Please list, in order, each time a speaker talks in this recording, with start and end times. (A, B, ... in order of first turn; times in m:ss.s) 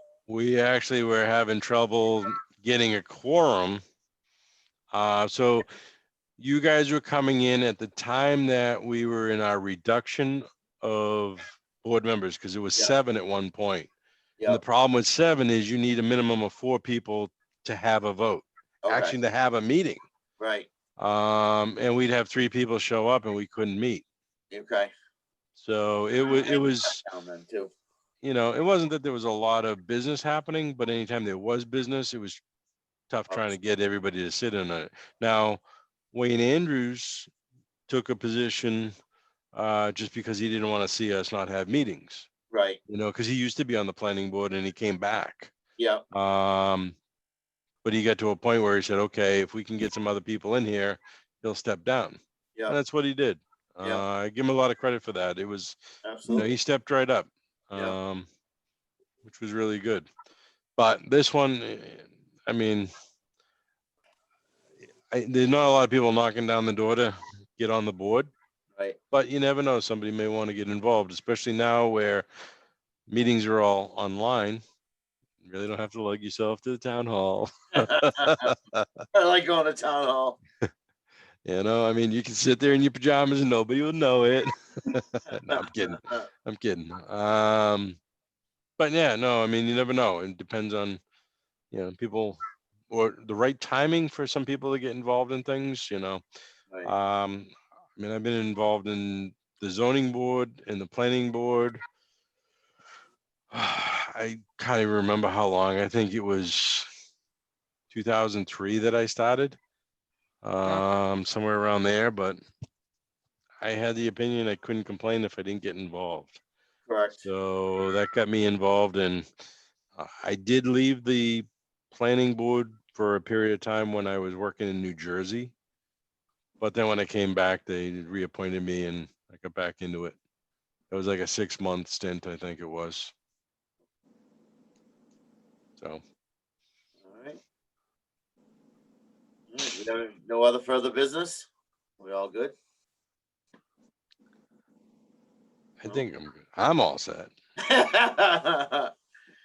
0:00.3-0:03.8 A
0:04.9-0:05.7 A
0:06.4-0:13.9 A
0:14.4-0:20.0 A
0:18.8-0:19.2 B
0:20.4-0:20.7 B
0:21.0-0:24.0 A
0:24.5-0:24.9 B
0:25.6-0:27.0 A
0:26.2-0:27.7 B
0:28.2-0:32.4 A
0:33.1-0:35.6 A
0:36.1-0:37.3 A
0:37.9-0:38.9 A
0:39.5-0:42.3 A
0:42.5-0:42.8 B
0:42.9-0:45.5 A
0:45.8-0:46.0 B
0:46.1-0:47.0 A
0:47.8-0:55.8 A
0:56.0-0:56.5 B
0:56.3-0:58.3 A
0:59.2-1:00.1 A
1:00.8-1:02.9 A
1:05.1-1:08.3 A
1:09.1-1:12.2 A
1:13.1-1:14.6 A
1:15.4-1:19.0 A
1:17.8-1:18.5 B
1:19.1-1:20.4 B
1:21.4-1:28.0 A
1:25.5-1:26.3 B
1:28.8-1:31.0 A
1:31.7-1:36.2 A
1:36.8-1:41.8 A
1:43.5-1:46.9 A
1:47.9-1:49.6 A
1:50.4-1:52.4 A
1:53.6-1:56.4 A
1:56.9-1:57.2 B
1:57.2-1:59.2 A
2:00.0-2:05.5 A
2:06.6-2:10.2 A
2:10.9-2:13.1 A
2:17.0-2:17.4 B
2:19.5-2:21.5 B
2:22.0-2:22.5 B
2:25.8-2:27.3 A
2:27.7-2:28.9 B